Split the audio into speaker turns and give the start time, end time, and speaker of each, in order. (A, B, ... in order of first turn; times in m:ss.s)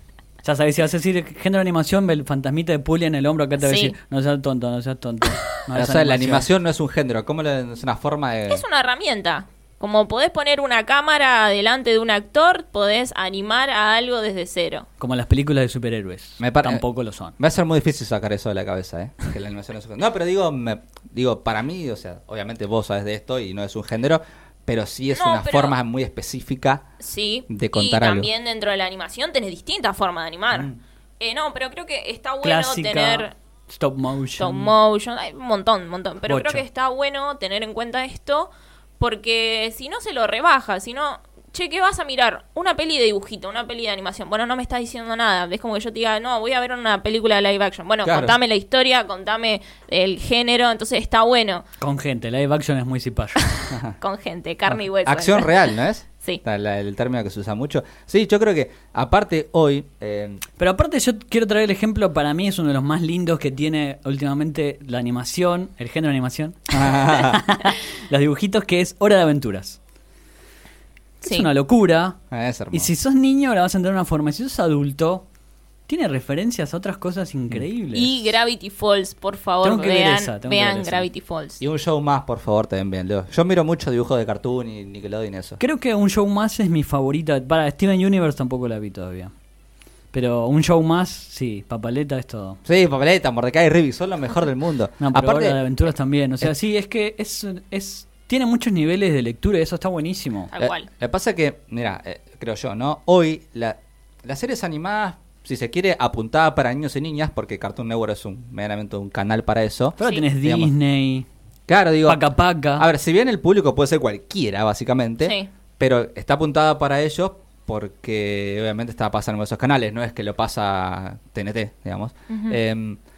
0:00.4-0:06.5 A
0:03.6-0:03.9 B
0:05.7-0:08.6 C
0:08.5-0:14.9 B
0:15.0-0:17.3 A
0:16.4-0:16.8 C
0:17.4-0:26.8 C
0:25.1-0:25.8 B
0:27.0-0:33.3 B
0:27.5-0:28.3 C
0:32.4-0:34.7 A
0:34.4-0:51.6 B
0:36.3-0:36.6 A
0:48.0-0:48.4 C
0:51.8-0:53.5 A
0:53.5-0:55.7 B
0:55.0-1:00.4 C
1:00.6-1:09.8 A
1:06.7-1:07.4 C
1:11.2-1:11.5 B
1:11.2-1:12.2 A
1:12.3-1:12.9 C
1:12.7-1:15.2 A
1:15.9-1:18.3 A
1:17.9-1:21.6 B
1:19.6-1:21.0 A
1:21.6-1:25.6 C
1:25.6-1:29.3 A
1:30.1-1:32.6 A
1:32.6-1:35.6 C
1:35.0-1:40.5 A
1:40.5-1:40.9 B
1:40.6-1:50.7 C
1:50.0-1:51.2 A
1:50.0-1:50.2 B
1:51.7-1:52.2 C
1:52.0-1:52.8 A
1:52.8-2:03.0 C
1:55.2-1:55.5 B
2:02.3-2:02.6 B